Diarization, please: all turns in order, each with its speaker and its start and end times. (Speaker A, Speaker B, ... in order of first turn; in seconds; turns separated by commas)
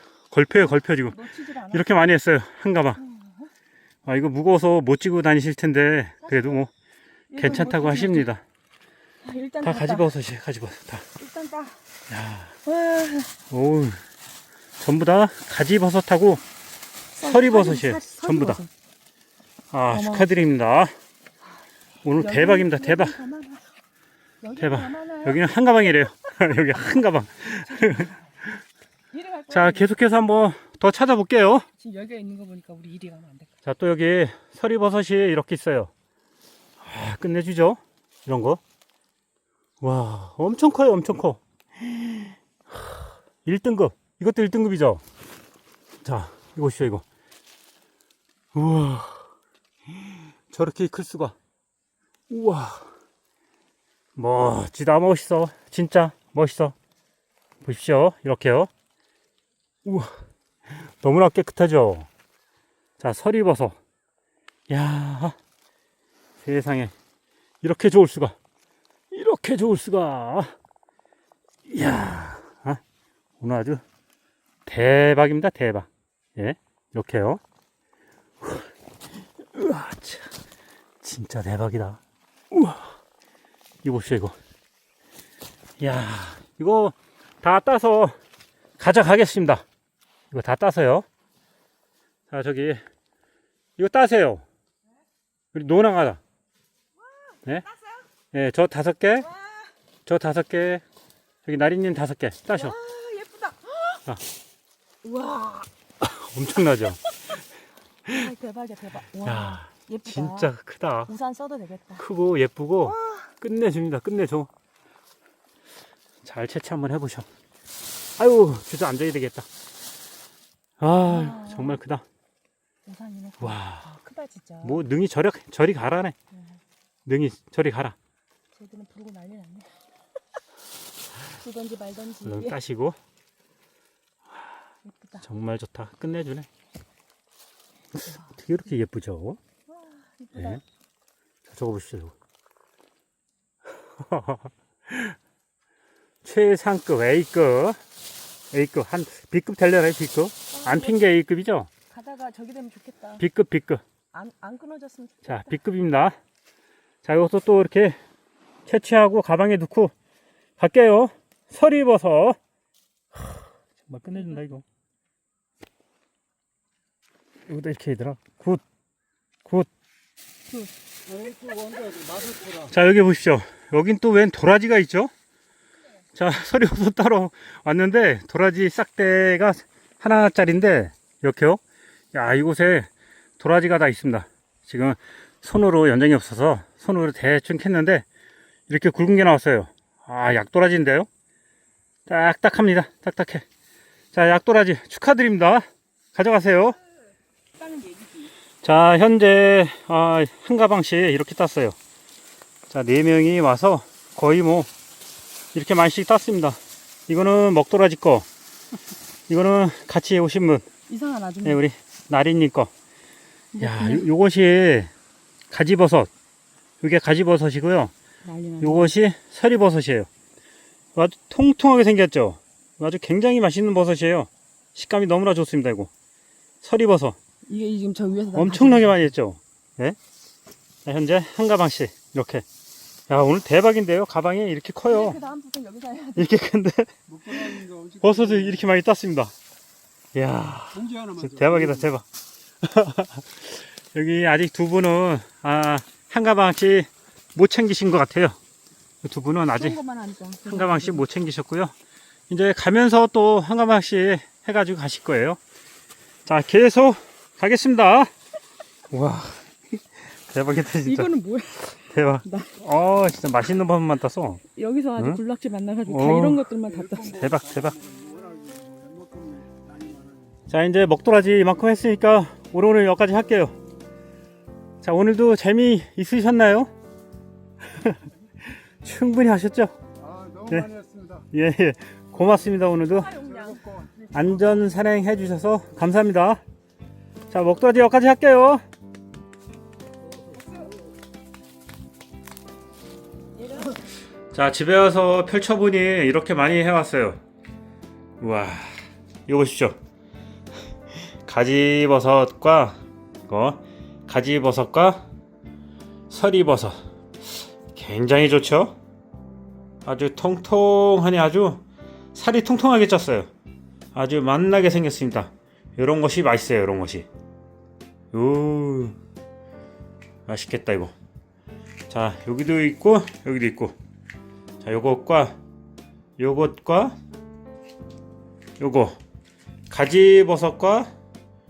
Speaker A: 0.3-3.0, Speaker B: 0.9-2.0, Speaker B: 3.0-3.5, Speaker A: 4.1-6.7, Speaker B: 6.2-6.6, Speaker B: 7.3-8.3, Speaker A: 7.4-8.4, Speaker B: 9.2-10.1, Speaker A: 9.6-11.1, Speaker B: 11.2-11.8, Speaker A: 12.1-12.6, Speaker B: 12.7-13.3, Speaker A: 13.5-14.0, Speaker A: 14.8-16.4, Speaker B: 17.2-18.7, Speaker A: 17.2-18.6, Speaker A: 19.7-20.9, Speaker B: 19.9-20.5, Speaker A: 22.0-23.2, Speaker B: 22.2-23.8, Speaker B: 24.4-26.1, Speaker A: 24.6-28.1, Speaker B: 27.7-28.2, Speaker B: 29.1-29.9, Speaker A: 29.5-31.7, Speaker B: 31.8-33.5, Speaker A: 33.6-35.9, Speaker A: 36.8-38.6, Speaker A: 39.8-42.1, Speaker A: 42.8-45.0, Speaker A: 46.0-47.0, Speaker A: 48.5-49.3, Speaker A: 50.5-51.4, Speaker A: 52.3-52.9, Speaker A: 54.2-56.8, Speaker A: 57.6-58.7, Speaker A: 59.8-60.2, Speaker A: 60.8-62.1, Speaker A: 63.0-63.8, Speaker A: 64.7-65.4, Speaker A: 66.4-66.9, Speaker A: 67.6-68.4, Speaker A: 69.1-70.5, Speaker A: 71.7-72.8, Speaker A: 73.4-73.8, Speaker A: 74.7-77.4, Speaker A: 78.4-78.7, Speaker A: 79.5-80.3, Speaker A: 81.0-82.0, Speaker A: 82.5-83.0, Speaker A: 83.8-84.4, Speaker A: 85.8-88.2, Speaker A: 88.8-89.6, Speaker A: 90.3-91.1, Speaker A: 92.3-92.8, Speaker A: 93.8-94.4, Speaker A: 95.5-96.2, Speaker A: 98.3-99.3, Speaker A: 100.1-100.8, Speaker A: 101.5-102.8, Speaker B: 102.5-104.0, Speaker B: 105.0-105.7, Speaker A: 106.0-107.0, Speaker B: 108.1-110.5, Speaker A: 109.2-111.1, Speaker B: 111.1-112.0, Speaker A: 112.0-114.5, Speaker B: 112.8-113.3, Speaker A: 116.2-117.3, Speaker A: 118.2-119.5, Speaker A: 120.8-122.0, Speaker B: 121.1-121.8, Speaker B: 122.9-124.8, Speaker A: 123.4-123.9, Speaker A: 124.6-126.2, Speaker A: 127.1-128.0, Speaker B: 128.6-129.9, Speaker B: 131.2-132.6, Speaker A: 132.2-133.0, Speaker B: 134.9-135.2, Speaker A: 135.2-136.5, Speaker A: 137.9-139.4, Speaker B: 139.7-140.6, Speaker A: 140.4-140.6, Speaker A: 141.5-142.1, Speaker A: 143.9-145.2, Speaker A: 146.2-147.8, Speaker A: 148.5-151.7, Speaker B: 150.5-151.1, Speaker B: 151.9-153.2, Speaker A: 153.2-153.8, Speaker B: 154.1-155.5, Speaker A: 155.2-156.2, Speaker A: 157.0-158.0, Speaker A: 158.7-159.9, Speaker A: 160.6-162.4, Speaker A: 163.2-164.6, Speaker A: 167.5-168.6, Speaker C: 171.3-172.2, Speaker A: 172.5-175.1, Speaker A: 176.1-181.6, Speaker A: 182.1-188.1, Speaker A: 188.7-191.1, Speaker A: 192.1-193.4, Speaker A: 194.1-195.6, Speaker A: 196.2-196.8, Speaker B: 197.6-198.3, Speaker A: 198.6-201.8, Speaker A: 202.7-204.7, Speaker A: 205.5-208.3, Speaker A: 209.3-210.7, Speaker B: 210.9-211.6, Speaker A: 211.4-212.7, Speaker B: 213.5-214.1, Speaker A: 213.6-214.9, Speaker A: 215.5-216.1, Speaker A: 216.8-217.9, Speaker B: 218.2-218.9, Speaker A: 218.6-220.1, Speaker A: 221.0-225.9, Speaker A: 226.6-227.2, Speaker B: 227.5-229.0, Speaker A: 228.3-230.0, Speaker A: 230.9-232.4, Speaker A: 233.1-235.2, Speaker B: 234.9-236.3, Speaker A: 236.2-239.3, Speaker C: 237.1-238.4, Speaker A: 240.2-242.1, Speaker C: 240.8-241.6, Speaker A: 242.6-248.4, Speaker A: 249.0-249.8, Speaker B: 249.5-251.1, Speaker A: 250.4-251.7, Speaker A: 252.3-255.4, Speaker A: 256.3-258.1, Speaker A: 258.9-261.1, Speaker B: 260.8-262.6, Speaker A: 261.7-264.4, Speaker B: 264.5-267.3, Speaker A: 265.9-267.8, Speaker C: 267.3-270.4, Speaker A: 270.5-273.5, Speaker A: 274.8-276.7, Speaker A: 277.7-278.0, Speaker A: 278.8-279.7, Speaker C: 280.0-281.2, Speaker A: 280.5-280.7, Speaker A: 281.3-283.2, Speaker B: 282.9-284.1, Speaker A: 284.1-286.4, Speaker A: 287.3-288.6, Speaker B: 293.4-293.8, Speaker A: 294.3-297.2, Speaker A: 298.2-299.8, Speaker A: 301.2-305.1, Speaker A: 306.1-306.8, Speaker A: 307.7-308.8, Speaker A: 309.9-313.3, Speaker A: 313.9-317.1, Speaker A: 318.1-319.0, Speaker A: 320.3-320.9, Speaker A: 321.9-323.8, Speaker A: 324.6-325.4, Speaker A: 326.2-327.0, Speaker A: 328.6-329.0, Speaker A: 329.7-330.9